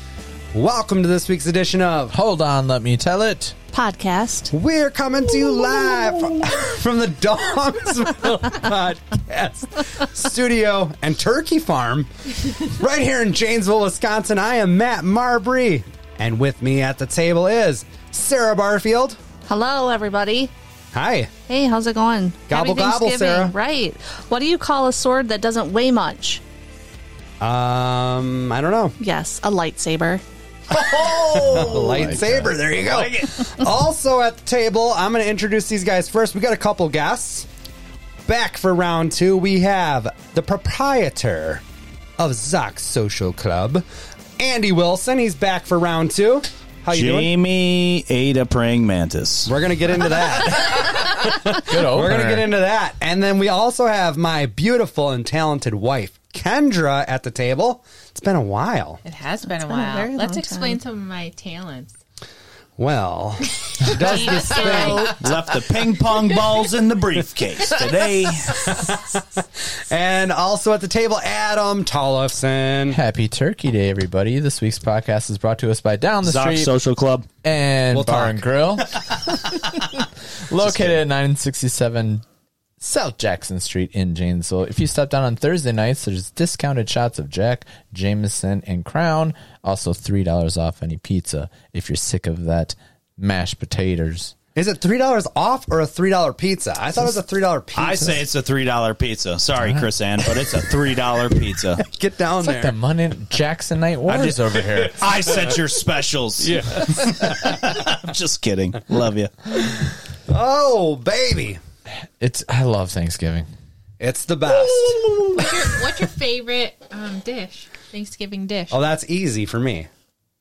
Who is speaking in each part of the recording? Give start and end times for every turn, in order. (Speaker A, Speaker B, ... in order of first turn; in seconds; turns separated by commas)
Speaker A: 0.5-2.1, Speaker B: 2.1-3.6, Speaker C: 3.7-4.5, Speaker A: 4.5-19.2, Speaker C: 5.6-6.2, Speaker C: 19.5-20.5, Speaker A: 20.9-21.3, Speaker C: 21.5-26.4, Speaker A: 22.5-23.5, Speaker A: 27.4-29.0, Speaker C: 29.0-30.2, Speaker D: 30.7-33.5, Speaker A: 30.8-37.5, Speaker B: 31.9-32.5, Speaker A: 38.3-41.6, Speaker A: 42.2-43.9, Speaker A: 44.4-47.3, Speaker D: 46.9-49.5, Speaker A: 49.5-59.0, Speaker B: 51.6-52.5, Speaker E: 59.0-62.0, Speaker C: 59.6-60.8, Speaker A: 62.8-65.2, Speaker E: 63.6-65.2, Speaker C: 64.7-65.1, Speaker D: 65.2-68.9, Speaker A: 68.5-73.0, Speaker B: 72.9-76.7, Speaker D: 76.2-77.3, Speaker B: 77.4-82.2, Speaker A: 77.9-78.5, Speaker D: 80.6-81.0, Speaker B: 82.8-94.3, Speaker A: 94.5-98.2, Speaker D: 97.8-101.8, Speaker B: 99.6-99.9, Speaker A: 101.8-102.8, Speaker B: 102.4-105.3, Speaker D: 104.1-109.7, Speaker B: 106.4-107.6, Speaker A: 110.3-111.6, Speaker B: 112.2-113.5, Speaker A: 114.0-115.4, Speaker E: 115.3-118.8, Speaker A: 118.7-119.9